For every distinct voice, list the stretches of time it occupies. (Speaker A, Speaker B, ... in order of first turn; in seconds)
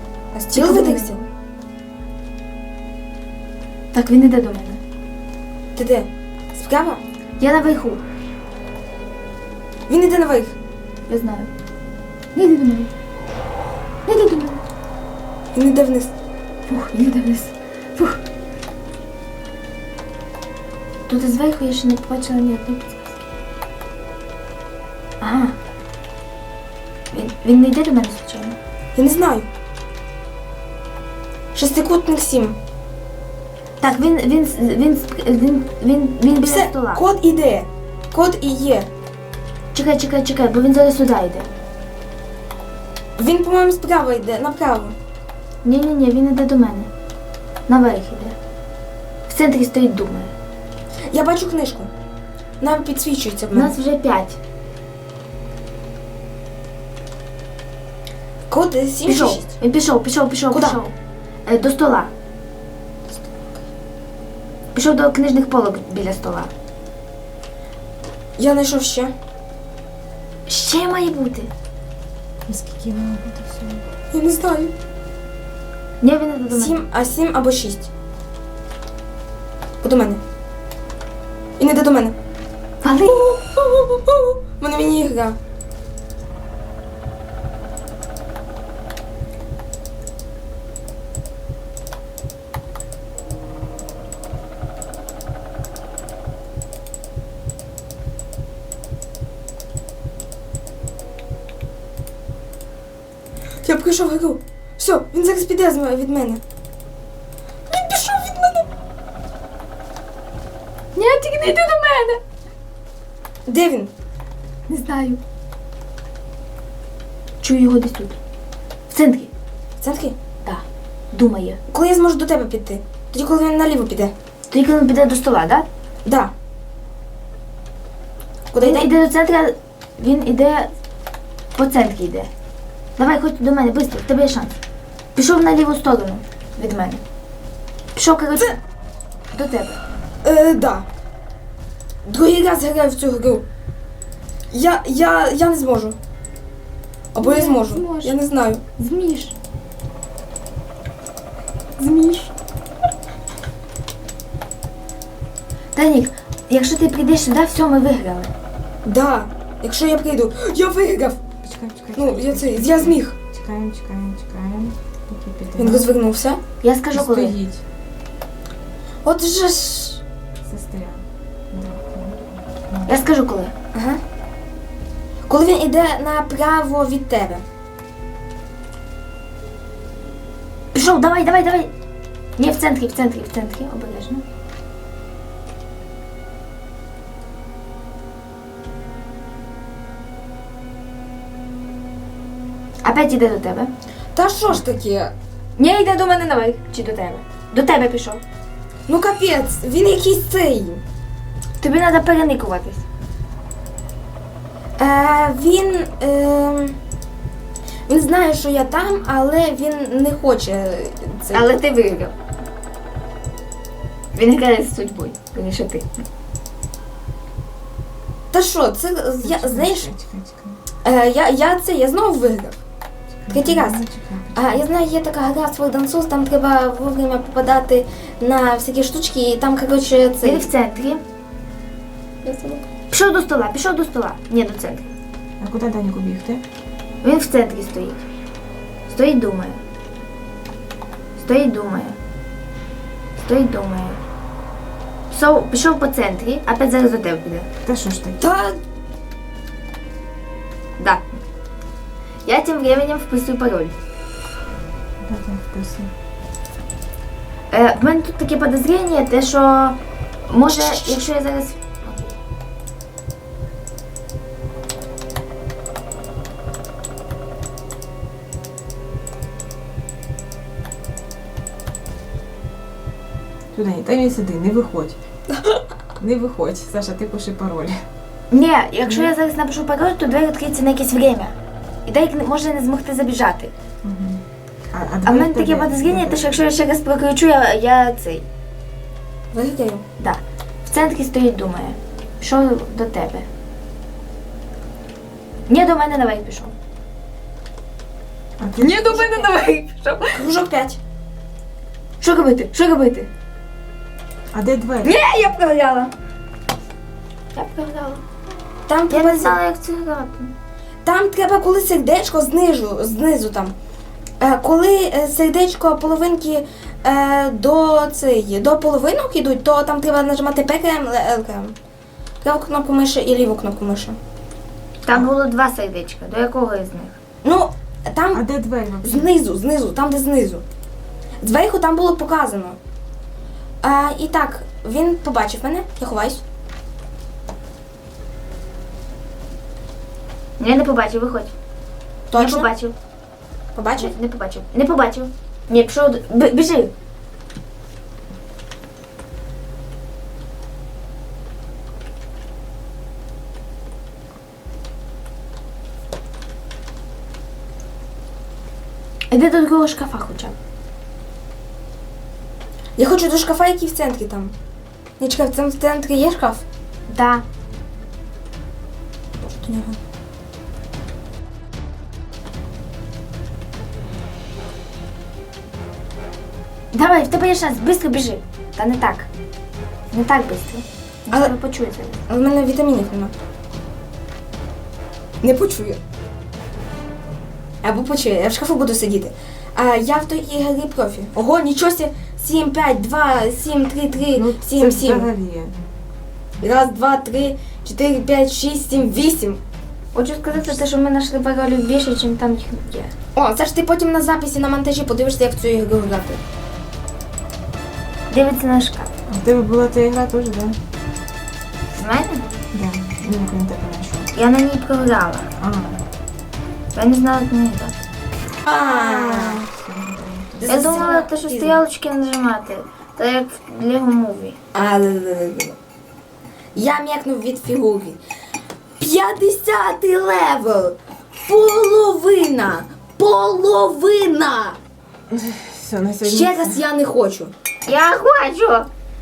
Speaker A: 0.3-1.3, 5.8-7.0, 9.9-10.6, 15.5-16.1, 28.9-29.5, 31.5-32.6, 36.4-38.9, 43.2-45.0, 51.1-51.9, 52.6-53.8, 58.5-59.5, 60.5-60.8, 63.1-63.6, 68.4-69.1, 74.1-74.7, 76.5-77.9, 79.8-80.2, 81.6-82.1, 83.0-85.4, 103.6-106.4, 107.7-108.7, 113.5-113.9, 119.8-120.1, 121.7-124.1, 126.0-126.3, 128.5-128.9, 140.2-140.9, 142.1-143.4, 144.5-146.0, 147.1-148.6, 158.8-161.2, 161.9-163.1, 165.6-166.4, 169.1-170.0, 173.7-174.0, 175.3-177.4, 194.1-195.1, 198.9-200.8, 204.8-206.8, 207.9-211.5, 218.3-219.9, 220.8-222.6, 223.3-223.8, 224.3-230.5, 232.2-232.7, 248.2-248.6, 260.5-261.1, 275.4-275.6, 289.3-289.8, 298.9-299.3, 300.1-300.8, 308.7-309.4, 310.8-313.5, 314.2-321.6, 322.2-324.0, 327.2-328.2, 328.8-330.4, 331.2-332.6, 333.6-336.2, 342.1-342.5, 343.6-343.9, 362.8-364.3, 365.0-366.4, 369.2-369.8, 382.1-383.1, 385.2-385.8, 387.6-395.1, 396.4-399.4, 403.1-406.2, 418.4-419.4, 420.4-421.6, 424.5-425.6, 426.6-428.0, 428.8-434.6, 436.0-437.3
Speaker B: 0.5-1.2, 3.9-4.8, 7.4-8.0, 11.1-11.5, 12.3-12.9, 14.1-14.6, 16.7-18.2, 21.1-23.2, 25.2-25.6, 27.1-28.6, 33.8-37.0, 39.7-41.5, 45.6-46.9, 47.7-48.4, 49.3-50.3, 53.5-54.4, 59.1-60.9, 61.5-62.1, 64.7-66.5, 70.5-71.5, 76.0-76.8, 82.8-83.3, 111.0-112.2, 114.7-115.2, 117.4-118.2, 118.9-119.3, 120.5-121.6, 124.5-125.7, 128.6-130.7, 131.6-132.3, 133.0-134.6, 135.1-137.0, 137.9-138.6, 139.3-139.8, 147.2-148.2, 148.8-149.3, 151.8-152.3, 155.8-158.3, 166.6-167.3, 172.9-173.5, 180.7-181.7, 182.4-184.2, 192.8-193.7, 195.6-198.2, 201.6-202.8, 211.3-212.1, 214.1-215.9, 230.2-231.0, 232.9-234.9, 237.0-238.1, 238.9-239.6, 241.2-242.0, 243.2-244.0, 245.1-247.5, 250.8-251.1, 252.3-253.8, 257.5-262.1, 278.3-281.4, 281.9-283.5, 285.1-288.2, 290.0-293.3, 295.5-296.6, 298.6-300.2, 302.0-303.1, 304.8-305.9, 307.3-308.0, 308.9-310.3, 324.9-327.0, 340.4-341.4, 342.1-342.8, 343.8-346.7, 359.1-360.4, 366.9-367.2, 376.7-379.1, 379.9-382.0, 399.9-402.9, 408.1-408.9, 411.8-412.4, 414.1-415.3, 416.8-417.8, 420.5-424.4, 437.6-438.7
Speaker C: 72.5-73.8, 161.4-165.9, 166.9-167.6, 170.5-173.0, 219.2-220.6, 223.1-224.6, 235.4-236.4, 247.6-248.2, 255.0-255.9, 273.5-275.0, 276.0-277.8, 278.9-279.1, 283.8-286.4, 298.4-299.0, 304.3-304.9, 328.1-329.1, 394.1-395.6, 409.1-410.6, 412.5-414.1, 415.4-415.8, 418.6-420.9, 435.1-436.6